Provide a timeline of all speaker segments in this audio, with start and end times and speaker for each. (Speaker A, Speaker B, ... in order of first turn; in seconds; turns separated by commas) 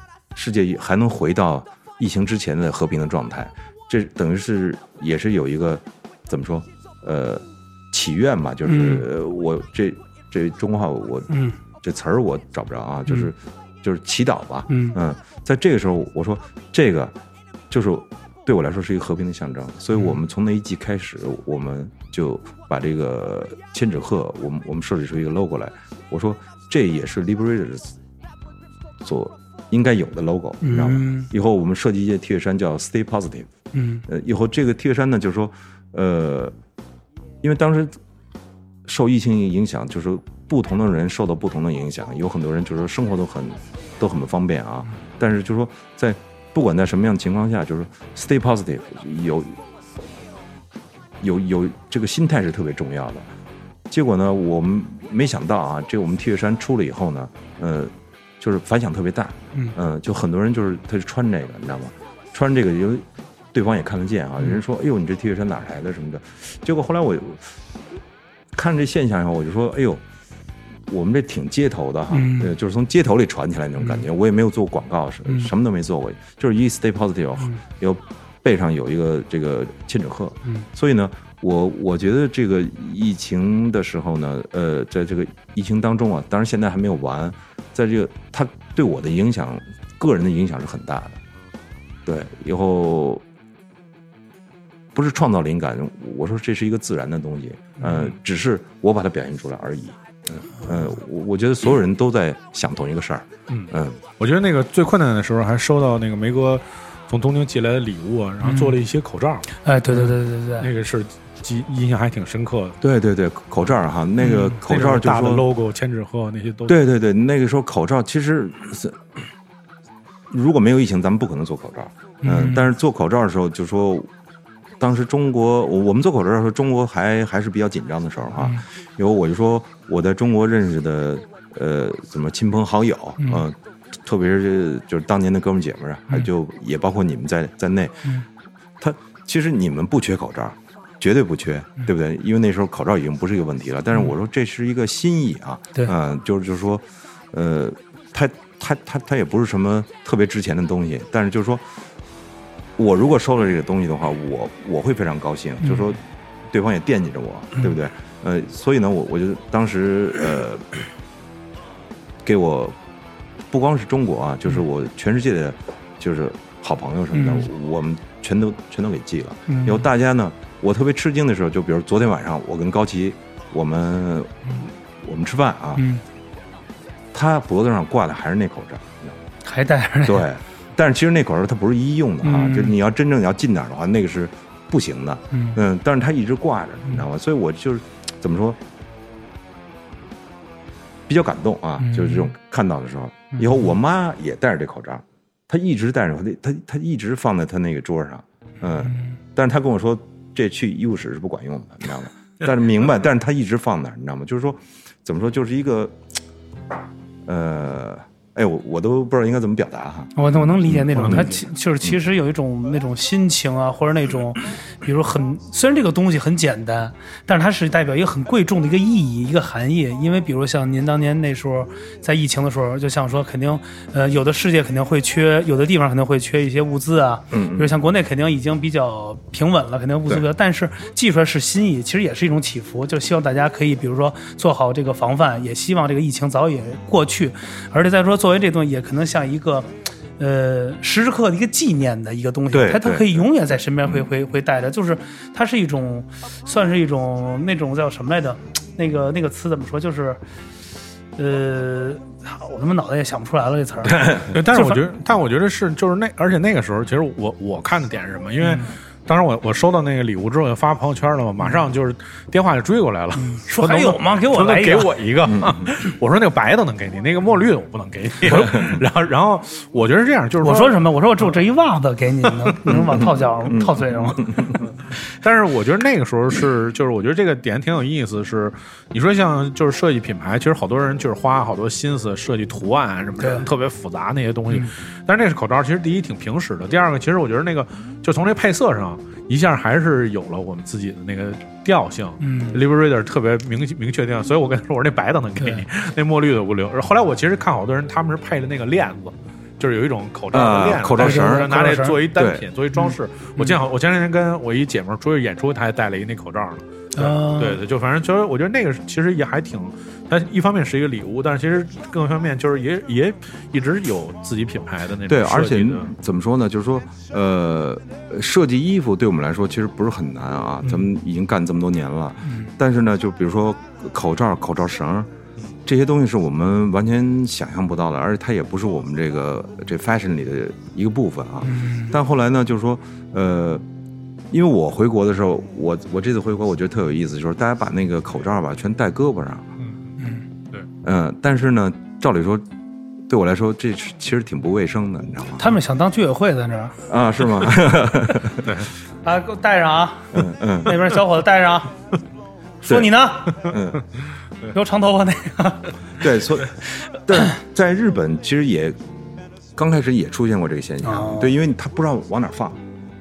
Speaker A: 0.3-17.1, Speaker B: 8.7-9.1, Speaker B: 11.3-11.6, Speaker B: 14.7-15.0, Speaker A: 17.7-27.9, Speaker A: 29.0-33.5, Speaker B: 30.6-31.3, Speaker B: 33.7-34.0, Speaker A: 34.1-36.5, Speaker A: 37.4-38.0, Speaker A: 38.9-49.6, Speaker A: 51.2-53.3, Speaker A: 53.9-67.5, Speaker A: 68.5-70.0, Speaker A: 70.9-91.2, Speaker B: 72.1-72.5, Speaker A: 92.1-93.2, Speaker A: 94.9-104.0, Speaker C: 103.5-112.8, Speaker B: 108.4-108.8, Speaker B: 109.6-110.7, Speaker A: 112.8-115.5, Speaker B: 114.2-114.6, Speaker C: 114.5-116.8, Speaker A: 116.7-119.0, Speaker A: 120.3-124.1, Speaker B: 122.2-122.7, Speaker A: 124.8-138.1, Speaker B: 128.4-128.6, Speaker B: 133.2-133.4, Speaker A: 138.8-151.6, Speaker A: 152.8-160.8, Speaker A: 162.2-162.8, Speaker A: 163.5-175.8, Speaker B: 167.1-167.5, Speaker B: 169.5-169.8, Speaker B: 175.8-176.0, Speaker A: 177.1-179.2, Speaker B: 179.4-180.3, Speaker A: 180.1-188.6, Speaker B: 182.2-182.8, Speaker B: 185.3-185.6, Speaker A: 191.1-206.0, Speaker B: 191.8-192.3, Speaker B: 193.3-193.6, Speaker B: 198.8-199.2, Speaker A: 207.2-212.0, Speaker B: 210.2-250.2, Speaker C: 211.0-211.3, Speaker A: 227.3-227.7, Speaker A: 242.5-243.3, Speaker B: 251.2-254.8, Speaker C: 254.2-270.8, Speaker B: 258.4-258.7, Speaker B: 263.2-264.9, Speaker A: 265.3-265.7, Speaker B: 270.4-274.6, Speaker A: 272.7-274.6, Speaker C: 275.1-315.9, Speaker B: 283.2-283.5, Speaker B: 292.2-292.6, Speaker B: 295.4-295.6, Speaker A: 300.3-301.6, Speaker B: 301.0-302.0, Speaker A: 302.1-302.5, Speaker B: 302.8-303.6, Speaker B: 306.9-307.6, Speaker A: 315.1-325.1, Speaker C: 320.6-320.9, Speaker B: 322.2-322.5, Speaker A: 325.7-333.6, Speaker B: 331.4-331.9, Speaker A: 334.3-339.5, Speaker C: 339.6-340.0, Speaker A: 340.8-342.4, Speaker A: 343.1-345.5, Speaker B: 345.4-346.8, Speaker A: 346.9-348.6, Speaker C: 348.4-348.7, Speaker B: 349.0-351.7, Speaker A: 350.1-350.8, Speaker B: 352.6-353.6, Speaker A: 352.6-353.9, Speaker B: 354.5-355.7, Speaker A: 356.0-358.8, Speaker A: 359.6-362.6, Speaker B: 360.8-361.4